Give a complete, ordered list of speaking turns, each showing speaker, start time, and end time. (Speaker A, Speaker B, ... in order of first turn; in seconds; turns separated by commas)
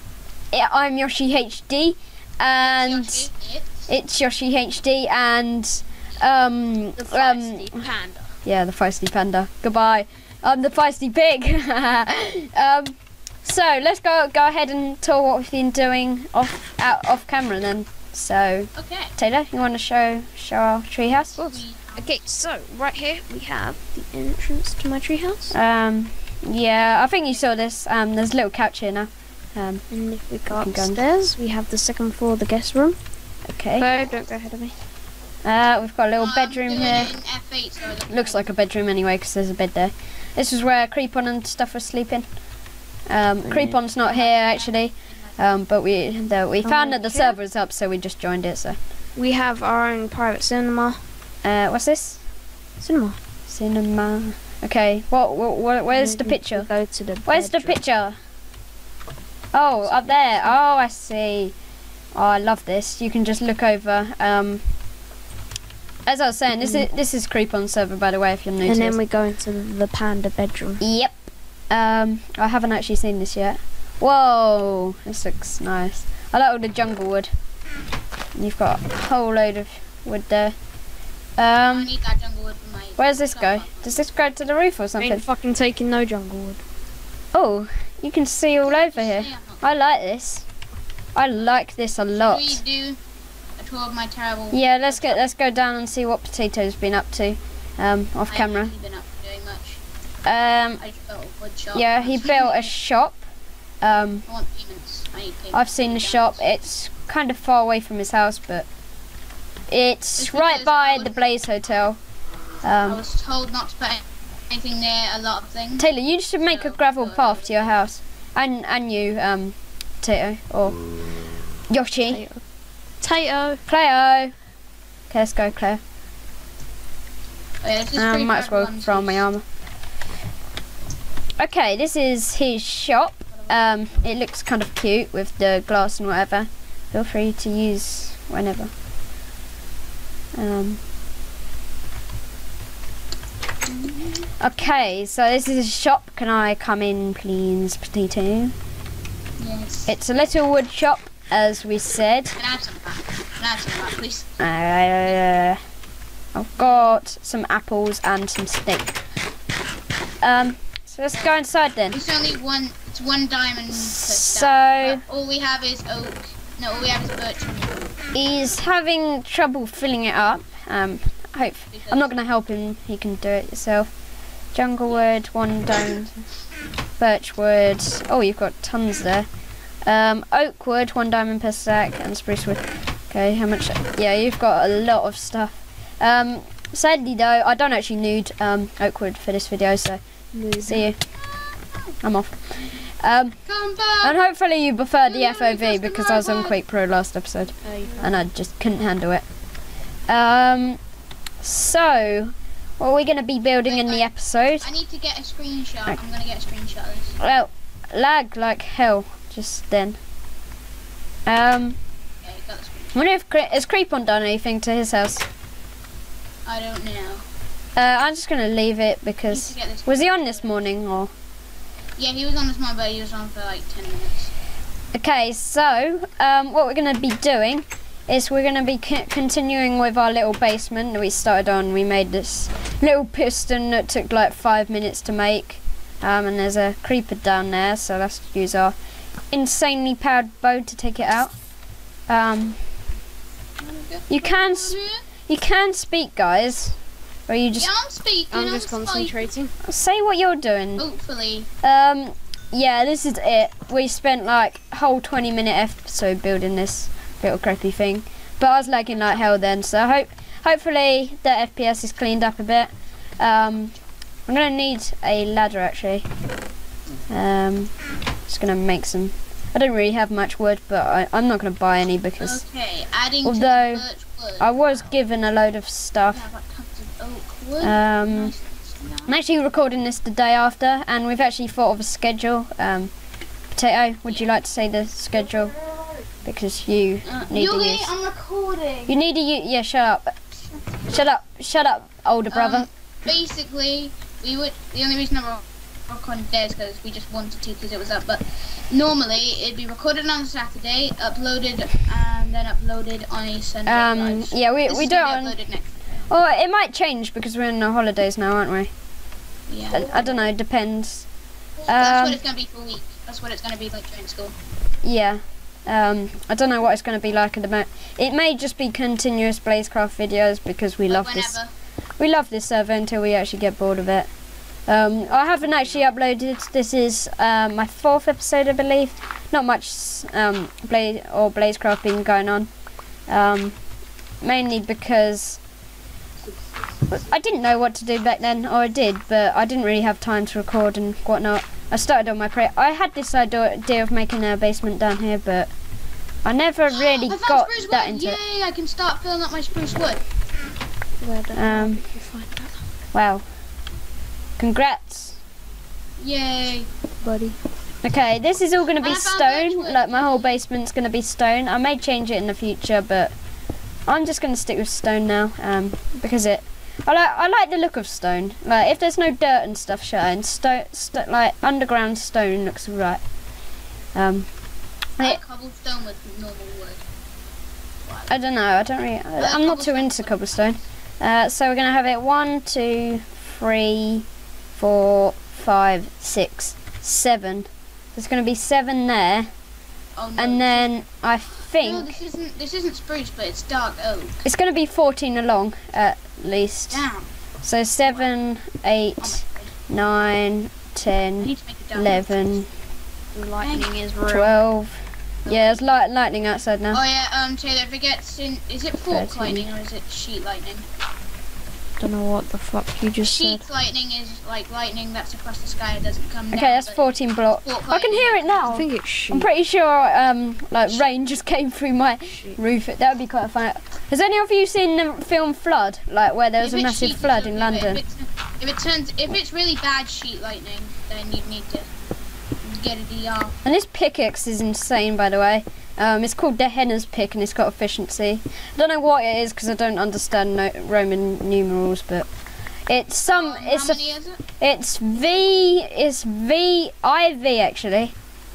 Speaker A: 0.5-3.3, Speaker B: 2.6-3.9, Speaker A: 3.9-7.8, Speaker C: 7.0-8.4, Speaker A: 8.4-21.4, Speaker B: 18.8-19.1, Speaker B: 21.1-22.4, Speaker C: 21.4-25.6, Speaker A: 25.5-29.8, Speaker C: 29.9-33.0, Speaker A: 30.5-31.0, Speaker A: 33.5-33.9, Speaker C: 33.8-34.7, Speaker A: 35.4-37.1, Speaker B: 36.2-38.5, Speaker A: 38.1-42.3, Speaker A: 43.1-48.8, Speaker C: 43.4-43.8, Speaker B: 44.0-45.3, Speaker C: 46.6-47.4, Speaker C: 49.1-51.0, Speaker A: 51.4-52.2, Speaker C: 52.8-53.2, Speaker A: 53.5-56.7, Speaker C: 55.9-57.8, Speaker A: 57.2-58.1, Speaker A: 59.5-61.5, Speaker A: 62.1-64.6, Speaker A: 66.1-69.0, Speaker C: 66.6-66.9, Speaker C: 68.6-70.8, Speaker A: 70.8-71.2, Speaker A: 71.7-77.3, Speaker A: 78.3-80.5, Speaker A: 81.4-81.9, Speaker B: 81.7-84.0, Speaker A: 83.0-85.3, Speaker C: 85.0-86.6, Speaker A: 87.3-90.5, Speaker B: 88.6-89.6, Speaker A: 91.2-92.6, Speaker B: 92.1-93.0, Speaker B: 93.6-95.2, Speaker A: 94.5-98.7, Speaker B: 98.3-99.8, Speaker A: 100.2-100.8, Speaker B: 100.8-102.7, Speaker A: 101.7-103.2, Speaker A: 103.8-104.2, Speaker B: 104.3-106.4, Speaker A: 105.5-108.7, Speaker A: 109.7-112.0, Speaker B: 110.2-111.2, Speaker A: 112.6-113.0, Speaker B: 112.8-115.9, Speaker A: 115.8-120.8, Speaker B: 116.4-117.7, Speaker A: 121.7-122.2, Speaker C: 122.1-122.4, Speaker C: 123.0-123.6, Speaker A: 123.7-124.3, Speaker A: 125.1-125.8, Speaker B: 127.6-129.3, Speaker A: 128.0-129.4, Speaker A: 131.4-138.7, Speaker A: 140.3-140.8, Speaker B: 143.6-144.3, Speaker A: 144.4-148.5, Speaker B: 149.4-149.9, Speaker A: 149.9-152.3, Speaker B: 152.4-154.4, Speaker A: 154.4-155.6, Speaker A: 156.3-159.0, Speaker B: 156.6-157.0, Speaker A: 160.2-162.0, Speaker B: 161.9-167.9, Speaker A: 163.7-165.0, Speaker A: 168.1-173.9, Speaker B: 171.7-172.1, Speaker A: 174.5-176.2, Speaker A: 177.0-179.3, Speaker A: 179.8-191.0, Speaker C: 190.3-190.8, Speaker B: 191.1-191.9, Speaker A: 192.0-193.4, Speaker B: 193.4-194.2, Speaker A: 194.0-199.2, Speaker B: 195.0-196.6, Speaker C: 197.6-198.1, Speaker A: 200.1-200.8, Speaker A: 201.4-204.7, Speaker B: 203.6-204.1, Speaker B: 204.6-207.2, Speaker A: 207.2-210.0, Speaker A: 211.2-211.8, Speaker B: 212.2-213.1, Speaker A: 212.9-215.2, Speaker B: 216.4-217.2, Speaker A: 217.8-221.1, Speaker B: 219.3-220.7, Speaker B: 222.0-224.3, Speaker A: 224.9-238.8, Speaker A: 239.3-241.3, Speaker A: 242.1-242.6, Speaker B: 243.6-245.0, Speaker A: 244.1-247.7, Speaker B: 247.6-249.3, Speaker C: 248.3-249.5, Speaker A: 249.6-250.8, Speaker B: 250.8-251.5, Speaker A: 251.6-263.8, Speaker B: 258.9-259.4, Speaker A: 264.3-266.1, Speaker A: 267.1-267.7, Speaker A: 268.3-272.4, Speaker B: 272.2-274.5, Speaker A: 273.2-273.9, Speaker A: 274.4-276.2, Speaker B: 276.1-279.1, Speaker A: 277.6-278.3, Speaker A: 279.1-282.9, Speaker A: 283.6-285.6, Speaker A: 286.2-287.9, Speaker B: 287.0-289.0, Speaker A: 288.9-290.1, Speaker B: 290.5-291.0, Speaker A: 290.9-292.7, Speaker B: 292.3-306.0, Speaker A: 303.6-305.4, Speaker A: 306.1-308.7, Speaker B: 309.5-310.0, Speaker A: 309.7-311.1, Speaker B: 311.6-314.3, Speaker A: 311.7-312.2, Speaker A: 314.8-321.4, Speaker B: 320.9-321.5, Speaker A: 322.0-324.1, Speaker A: 324.7-332.5, Speaker A: 333.1-333.6, Speaker A: 334.2-335.4, Speaker A: 336.9-345.5, Speaker A: 346.2-348.2, Speaker B: 346.7-350.0, Speaker C: 351.0-352.6, Speaker A: 351.3-351.8, Speaker A: 352.9-353.2, Speaker A: 354.4-355.2, Speaker B: 356.0-356.7, Speaker C: 357.0-357.4, Speaker A: 357.8-363.1, Speaker B: 358.8-360.3, Speaker A: 363.9-373.0, Speaker A: 373.9-374.3, Speaker B: 375.0-376.8, Speaker B: 377.8-378.2, Speaker A: 378.1-389.3, Speaker B: 379.1-380.4, Speaker B: 389.9-390.8, Speaker A: 390.2-391.9, Speaker B: 391.5-394.2, Speaker A: 394.2-396.8, Speaker B: 396.7-397.1, Speaker A: 397.4-402.5, Speaker B: 397.8-398.1, Speaker B: 399.0-399.5, Speaker B: 401.2-402.3, Speaker C: 403.1-404.3, Speaker B: 403.4-403.7, Speaker A: 404.1-406.8, Speaker B: 405.2-405.7, Speaker B: 406.7-410.7, Speaker A: 408.9-409.4, Speaker C: 411.8-413.4, Speaker B: 413.0-418.6, Speaker A: 416.3-427.8, Speaker C: 418.5-419.3, Speaker B: 426.4-431.7, Speaker B: 432.4-433.4, Speaker A: 433.4-442.1, Speaker A: 442.7-443.8, Speaker B: 443.1-444.2, Speaker A: 444.4-447.9, Speaker B: 444.9-445.6